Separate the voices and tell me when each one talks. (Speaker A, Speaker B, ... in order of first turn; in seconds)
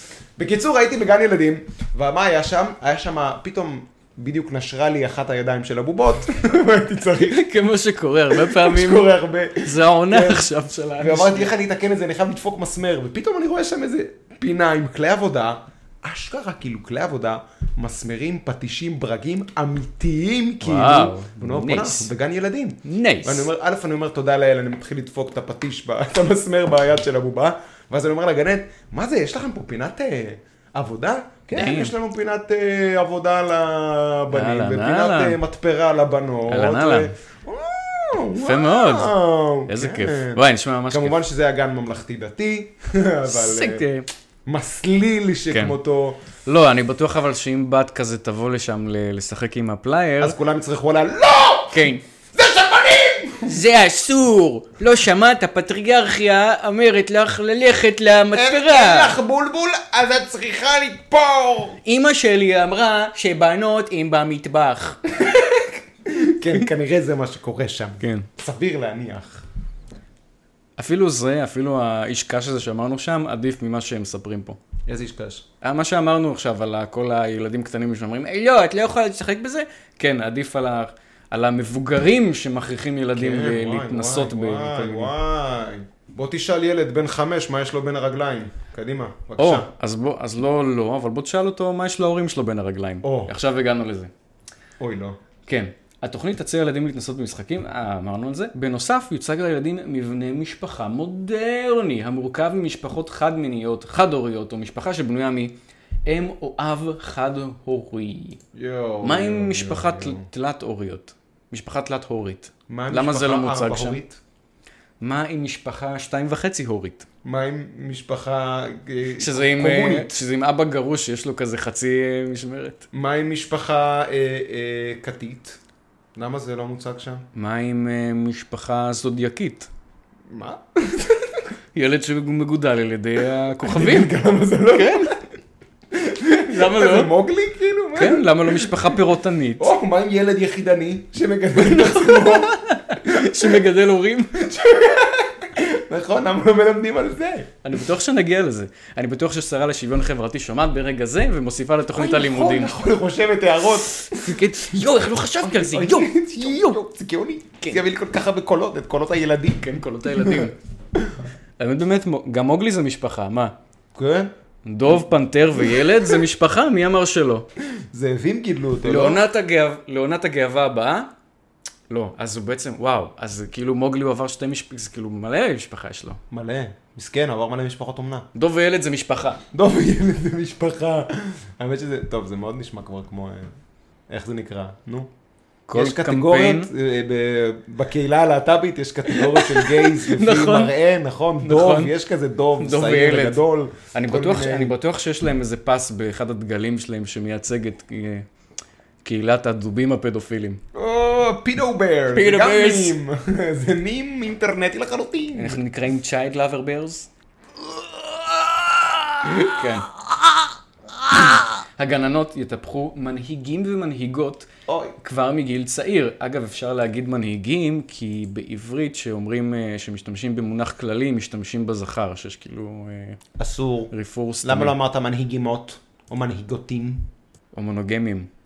Speaker A: 0.4-7.4, 8.3-10.4, 11.0-43.8, 44.5-46.2, 50.2-53.6, 58.3-61.8, 65.2-69.4, 74.9-75.4, 83.1-89.7, 93.0-93.3, 94.8-95.2, 108.5-110.3, 112.7-114.2, 117.2-120.2, 122.9-125.6, 126.2-127.2, 130.3-131.4, 133.6-135.2, 135.9-138.9, 139.6-143.6, 144.3-147.5, 151.9-161.1, 163.9-164.3, 165.7-166.0, 167.9-169.2, 176.3-178.3, 179.5-183.5, 184.1-185.1, 185.7-194.7, 200.7-205.6, 207.6-209.7, 214.7-214.9, 223.4-227.1
Speaker B: 7.2-11.5, 20.6-22.1, 22.8-23.5, 31.5-31.9, 34.3-35.4, 36.5-37.1, 38.4-41.2, 43.3-44.1, 45.5-45.8, 46.4-50.4, 51.7-52.0, 53.5-59.2, 61.8-65.0, 68.0-68.3, 70.8-74.6, 75.6-85.1, 89.4-94.1, 95.5-105.5, 106.0-108.4, 109.0-114.0, 115.0-117.0, 119.2-122.8, 127.3-129.7, 131.7-134.1, 134.7-135.1, 136.4-137.1, 137.9-139.7, 141.5-144.4, 147.6-152.7, 154.0-156.8, 159.6-160.6, 161.6-163.5, 164.6-167.5, 168.8-171.1, 171.9-176.2, 178.3-179.4, 185.7-186.7, 189.1-190.7, 191.4-191.9, 192.6-198.2, 199.0-200.6, 202.1-203.0, 205.3-207.1, 209.3-209.9, 211.1-214.5, 215.0-223.2, 223.9-224.7, 227.5-228.3